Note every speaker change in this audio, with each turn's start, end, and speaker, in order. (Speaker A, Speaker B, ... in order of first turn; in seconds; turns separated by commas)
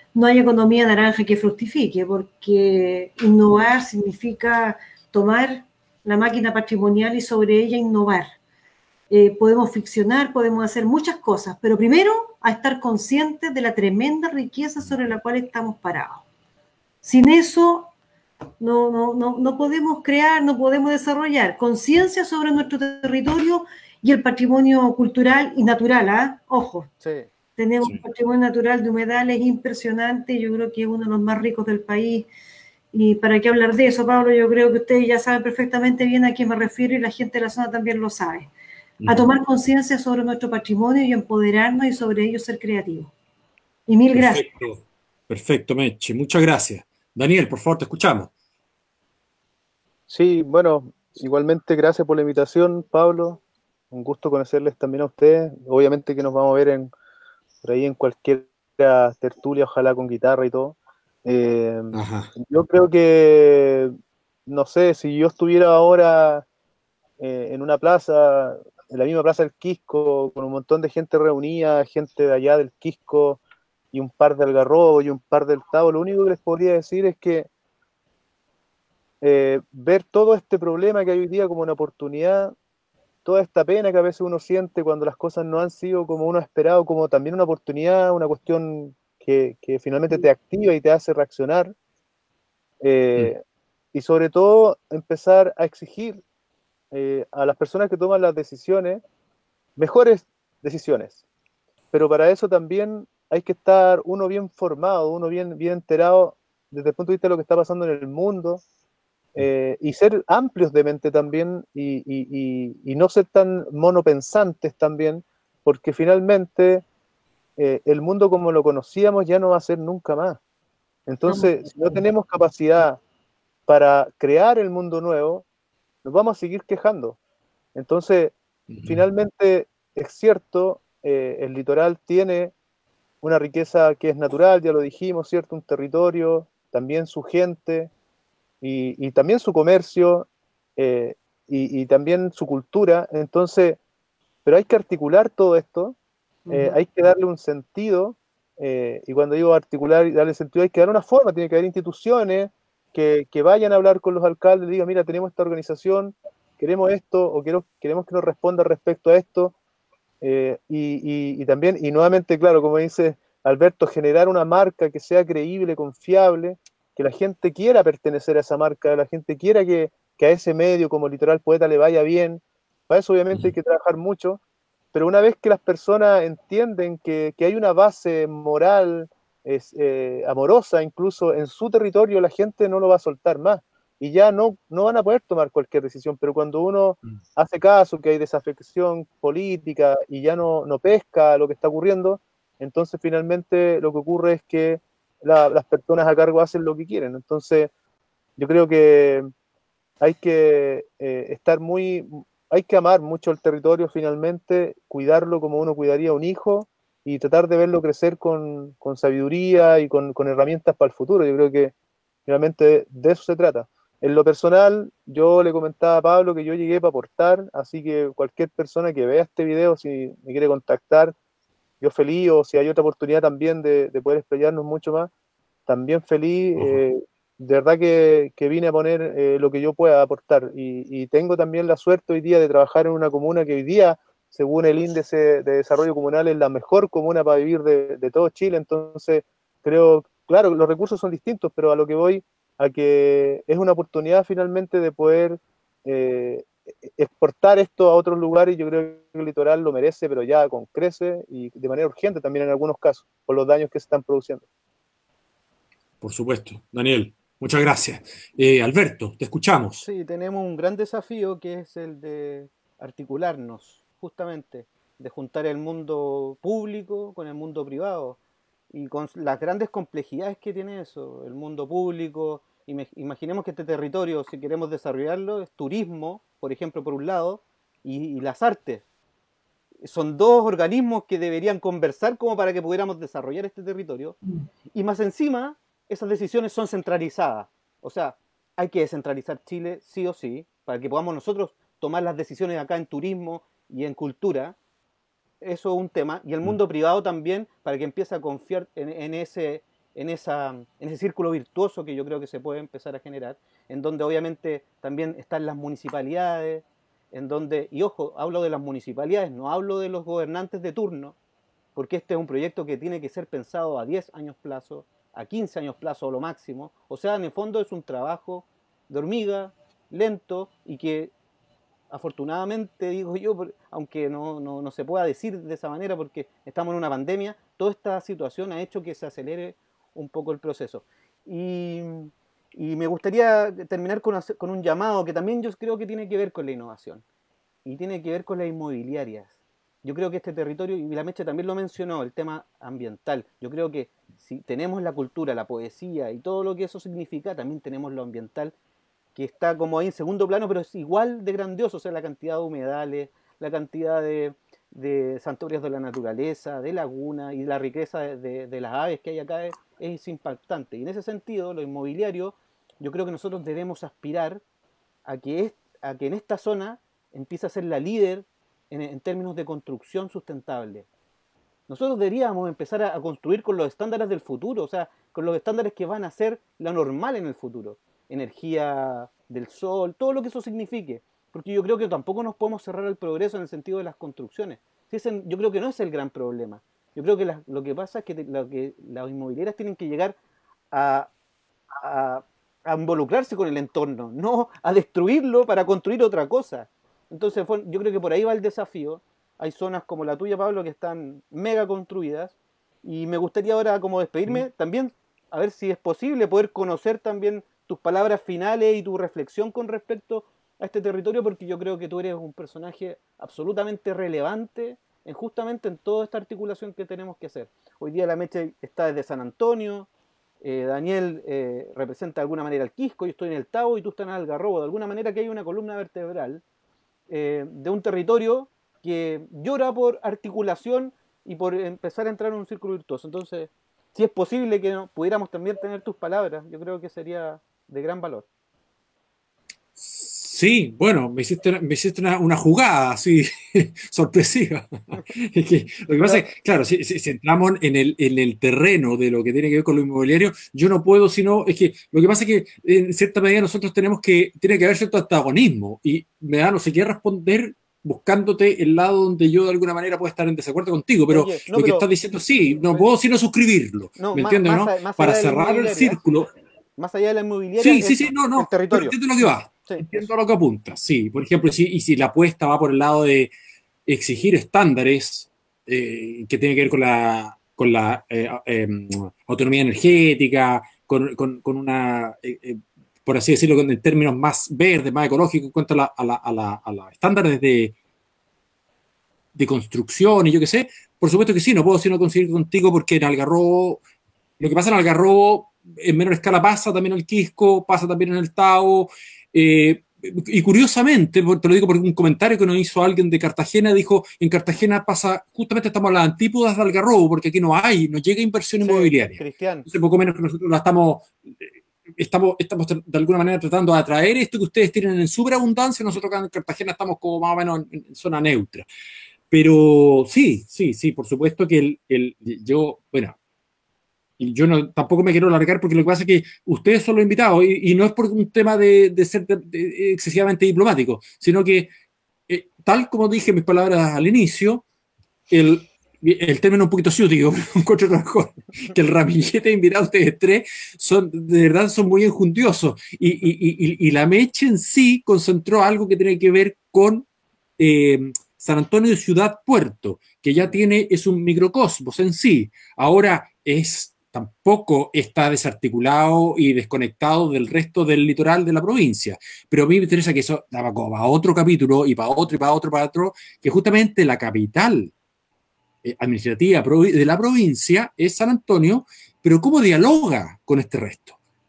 Speaker A: 0.1-8.3, Speaker A: 9.1-16.2, Speaker A: 17.0-17.9, Speaker A: 18.6-26.9, Speaker B: 27.0-27.3, Speaker A: 27.6-32.3, Speaker A: 32.9-38.5, Speaker C: 39.0-39.3, Speaker A: 39.1-43.1, Speaker A: 43.9-44.5, Speaker C: 44.1-48.3, Speaker D: 50.1-56.9, Speaker D: 57.6-63.9, Speaker C: 61.9-62.3, Speaker D: 64.5-66.5, Speaker D: 67.2-77.5, Speaker D: 79.2-82.5, Speaker D: 83.2-91.7, Speaker D: 92.8-93.4, Speaker D: 93.9-96.2, Speaker D: 96.9-99.0, Speaker D: 99.8-101.2, Speaker D: 101.9-108.6, Speaker D: 109.3-116.8, Speaker D: 117.6-120.4, Speaker D: 121.1-123.0, Speaker A: 121.3-122.0, Speaker D: 123.7-125.5, Speaker D: 126.0-127.2, Speaker D: 127.8-132.5, Speaker C: 128.7-129.1, Speaker D: 133.2-137.9, Speaker D: 138.6-143.8, Speaker D: 144.4-146.0, Speaker A: 146.5-146.8, Speaker D: 146.5-159.6, Speaker D: 160.2-174.4, Speaker D: 174.9-197.7, Speaker D: 198.4-199.3, Speaker D: 200.0-211.7, Speaker D: 212.3-221.1, Speaker D: 221.8-225.1, Speaker D: 225.7-254.4, Speaker C: 256.0-259.9, Speaker B: 259.8-268.2, Speaker B: 268.7-278.8, Speaker B: 279.8-284.2, Speaker B: 284.7-294.6, Speaker B: 295.4-311.2, Speaker B: 311.8-321.1, Speaker B: 321.9-337.0, Speaker B: 337.6-348.5, Speaker B: 349.1-364.4, Speaker B: 365.1-370.9, Speaker B: 371.7-390.2, Speaker B: 390.7-391.1, Speaker B: 391.7-419.9, Speaker B: 420.4-426.4, Speaker B: 427.1-438.3, Speaker C: 439.8-466.3, Speaker B: 445.9-446.3, Speaker B: 461.1-461.9, Speaker B: 464.0-466.0, Speaker B: 466.8-470.1, Speaker C: 467.6-473.3, Speaker C: 473.9-487.8, Speaker C: 489.4-493.8, Speaker C: 494.4-518.7, Speaker B: 508.6-509.7, Speaker C: 519.3-523.2, Speaker C: 524.2-531.7, Speaker C: 532.3-534.6, Speaker C: 535.3-547.1, Speaker C: 547.6-564.9, Speaker C: 565.8-571.2